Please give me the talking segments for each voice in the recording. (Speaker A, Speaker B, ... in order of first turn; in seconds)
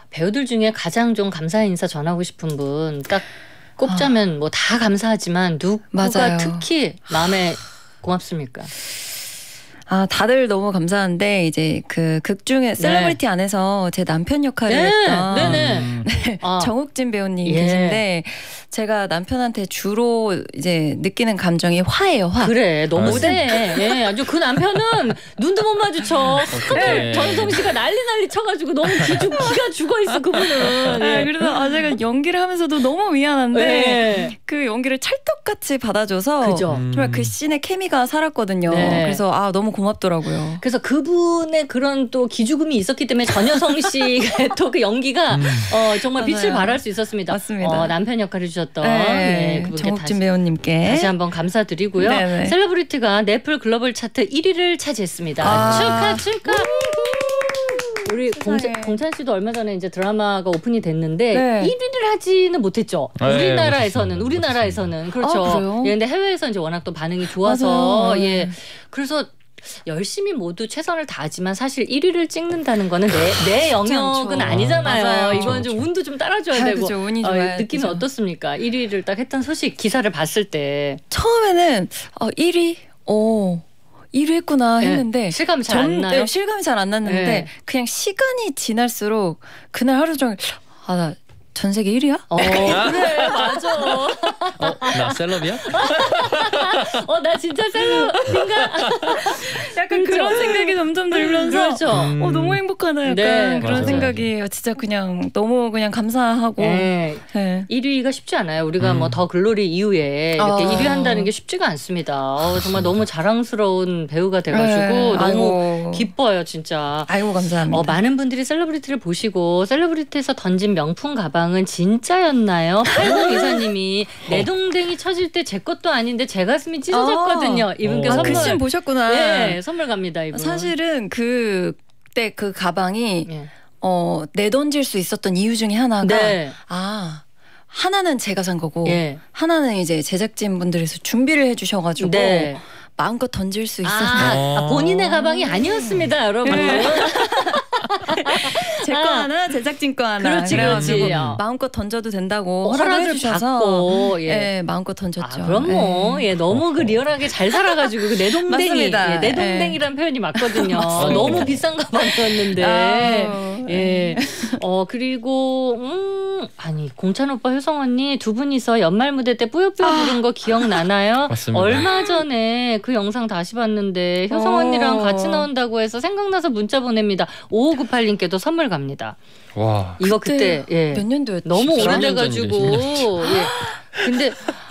Speaker A: 0.1-8.7, 12.8-13.2, 14.7-16.7, 17.4-18.0, 22.4-31.3, 33.5-34.3, 36.4-36.8, 38.7-39.2, 40.6-50.2, 50.8-81.0, 84.8-86.3, 87.0-87.5, 92.3-102.1, 103.0-104.1, 106.6-117.1, 117.7-130.7, 136.0-136.6, 138.8-139.2, 142.0-142.6, 143.8-149.3, 150.2-151.4, 152.6-154.5, 155.2-179.2, 180.0-184.4
Speaker B: 5.9-6.6, 9.9-23.8, 26.7-27.5, 31.0-40.6, 46.1-47.9, 48.8-51.1, 52.0-52.6, 55.4-59.0, 61.3-61.7, 65.2-65.9, 67.4-68.5, 73.8-75.6, 76.5-78.0, 81.1-93.2, 99.3-107.7, 110.4-111.3, 114.5-116.1, 117.1-118.0, 122.9-123.6, 126.9-129.6, 130.3-133.3, 133.8-144.5, 145.2-156.2, 157.8-159.8, 160.3-164.6, 169.8-170.8, 174.3-175.5, 180.0-183.8
Speaker C: 15.4-16.1, 22.9-23.6, 26.4-27.6, 30.7-31.0, 36.7-37.3, 45.3-45.7, 63.2-64.9, 74.4-75.8, 92.7-93.3, 94.6-96.3, 101.9-102.6, 103.6-104.3, 108.8-109.2, 112.5-113.0, 127.8-128.6, 144.2-145.2, 150.5-151.4, 156.5-157.0, 160.9-161.6, 171.3-171.9, 179.6-180.0, 181.7-183.1